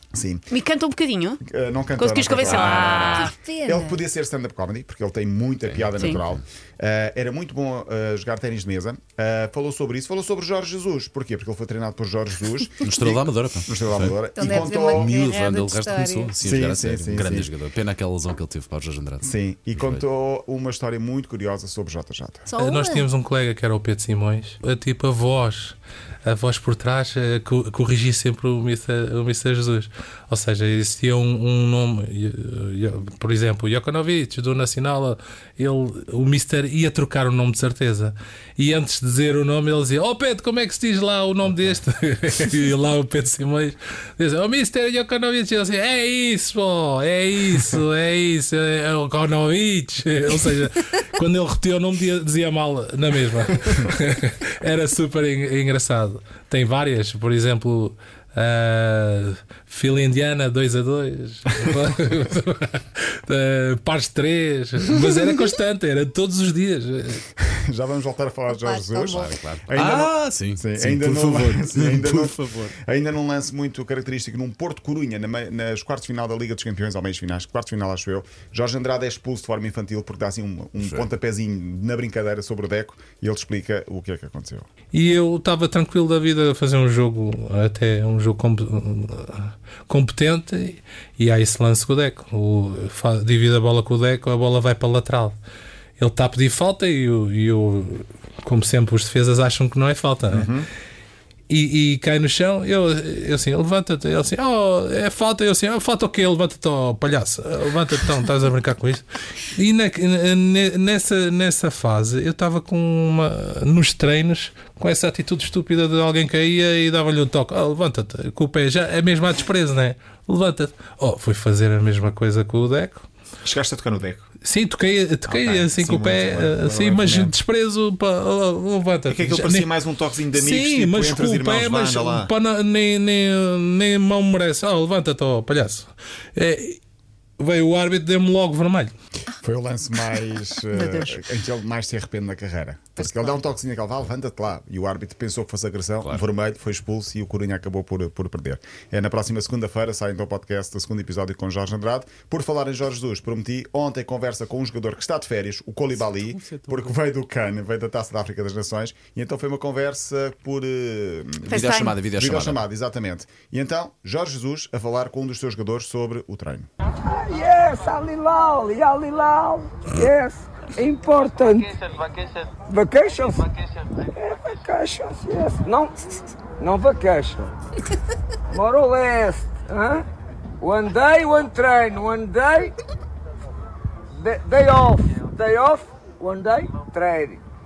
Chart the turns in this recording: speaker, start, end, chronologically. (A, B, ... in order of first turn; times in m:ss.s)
0:00.1-0:00.5 A
0:00.5-0:01.4 B
0:01.4-0:15.1 A
0:02.0-0:03.3 B
0:02.4-0:04.0 C
0:05.6-0:06.4 D
0:12.8-0:20.0 D
0:14.3-0:16.4 C
0:16.4-0:17.5 A
0:19.2-0:22.5 A
0:22.5-0:23.0 C
0:22.6-1:07.2 E
1:07.4-1:24.7 A
1:08.5-1:09.3 C
1:09.0-1:12.8 D
1:20.8-1:21.1 D
1:24.9-1:35.4 E
1:36.0-1:40.5 E
1:40.3-1:40.7 A
1:41.5-2:03.0 E
2:03.4-2:04.2 A
2:04.4-2:09.7 E
2:05.3-2:07.4 A
2:09.1-2:12.3 A
2:10.3-2:16.8 E
2:17.4-2:18.9 E
2:19.4-2:41.6 A
2:20.7-2:21.2 B
2:36.1-2:36.9 D
2:41.4-2:42.6 D
2:41.5-2:42.0 B
2:42.1-2:46.7 A
2:47.1-2:51.7 F
2:52.7-2:53.4 F
2:54.1-2:56.0 F
2:56.6-2:57.5 F
2:58.5-3:00.0 F
3:00.6-3:02.7 F
3:04.2-3:07.4 F